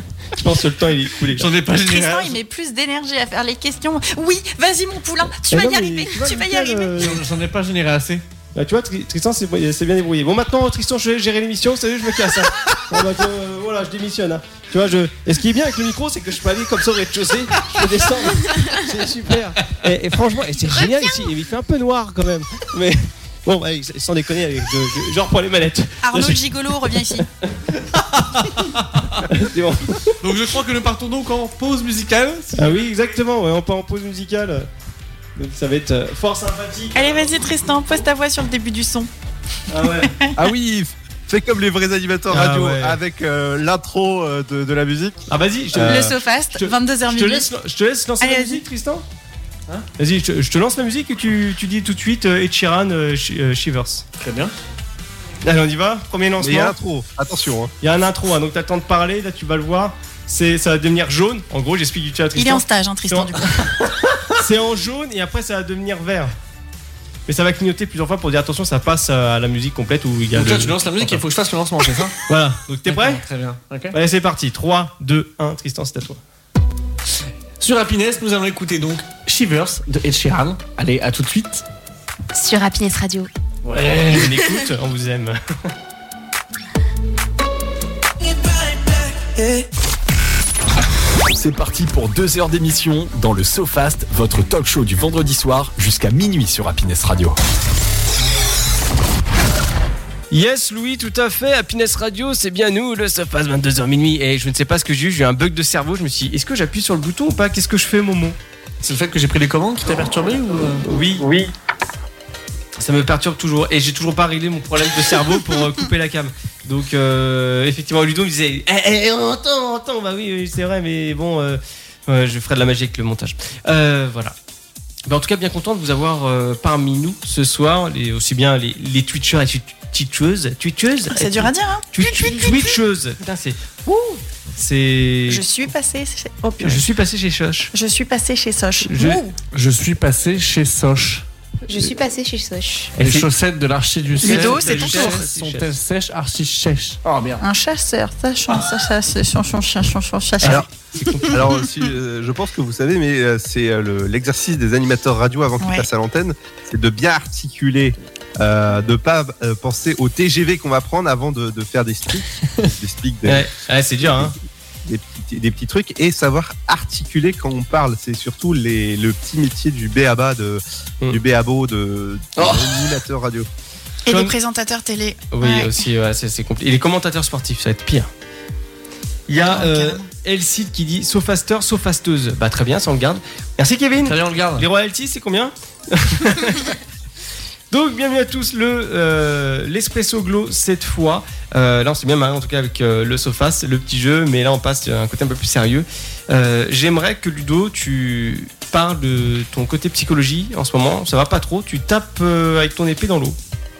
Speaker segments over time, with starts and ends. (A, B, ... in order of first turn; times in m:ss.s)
0:00.3-0:01.5 A
0:01.3-0:02.4 B
0:01.8-0:06.9 C
0:05.5-0:07.2 A
0:07.0-0:08.2 B
0:08.5-0:26.4 A
0:26.0-0:27.2 C
0:27.0-0:28.7 A
0:28.9-0:29.2 B
0:29.2-0:30.2 A
0:30.2-0:32.9 B
0:32.5-0:34.7 A
0:35.4-0:37.3 A
0:36.9-0:39.1 C
0:39.7-0:40.1 A
0:40.0-0:40.3 C
0:40.4-0:45.2 D
0:42.3-0:43.0 A
0:45.3-0:49.0 A
0:45.8-0:47.5 C
0:48.2-0:48.6 C
0:50.0-0:54.0 A
0:54.2-0:54.5 B
0:55.4-0:56.7 A
0:56.4-0:57.7 D
0:57.8-1:03.4 A
1:02.4-1:03.5 C
1:04.4-1:06.3 A
1:07.3-1:11.2 A
1:10.3-1:12.2 B
1:12.3-1:13.2 A
1:12.8-1:14.0 B
1:13.9-1:16.2 A
1:17.6-1:21.6 B
1:22.3-1:23.3 E
1:23.6-1:24.4 B
1:23.8-1:25.4 A
1:28.9-1:29.6 B
1:31.3-1:37.4 F
1:40.3-1:48.4 A
1:48.8-1:51.2 B
1:50.8-1:51.5 A
1:52.8-2:04.3 A
2:05.1-2:15.4 A
2:11.1-2:12.7 C
2:15.3-2:16.8 C
2:16.6-2:17.7 A
2:17.7-2:19.3 C
2:18.8-2:19.2 A
2:19.5-2:21.2 B
2:21.6-2:22.9 E
2:23.0-2:23.3 A
2:23.0-2:27.4 B
2:24.2-2:25.7 A
2:24.2-2:25.2 C
2:27.4-2:31.4 C
2:30.4-2:31.4 A
2:31.2-2:43.4 D
2:35.6-2:35.9 C
2:43.2-2:44.3 A
2:44.0-2:44.3 D
2:44.8-2:53.5 D
2:52.4-2:52.7 A
2:54.0-2:55.7 C
2:54.1-2:54.3 A
2:55.3-2:58.1 A
2:59.3-3:06.8 A
2:59.5-3:00.1 C
3:04.0-3:04.7 B
3:07.7-3:23.4 A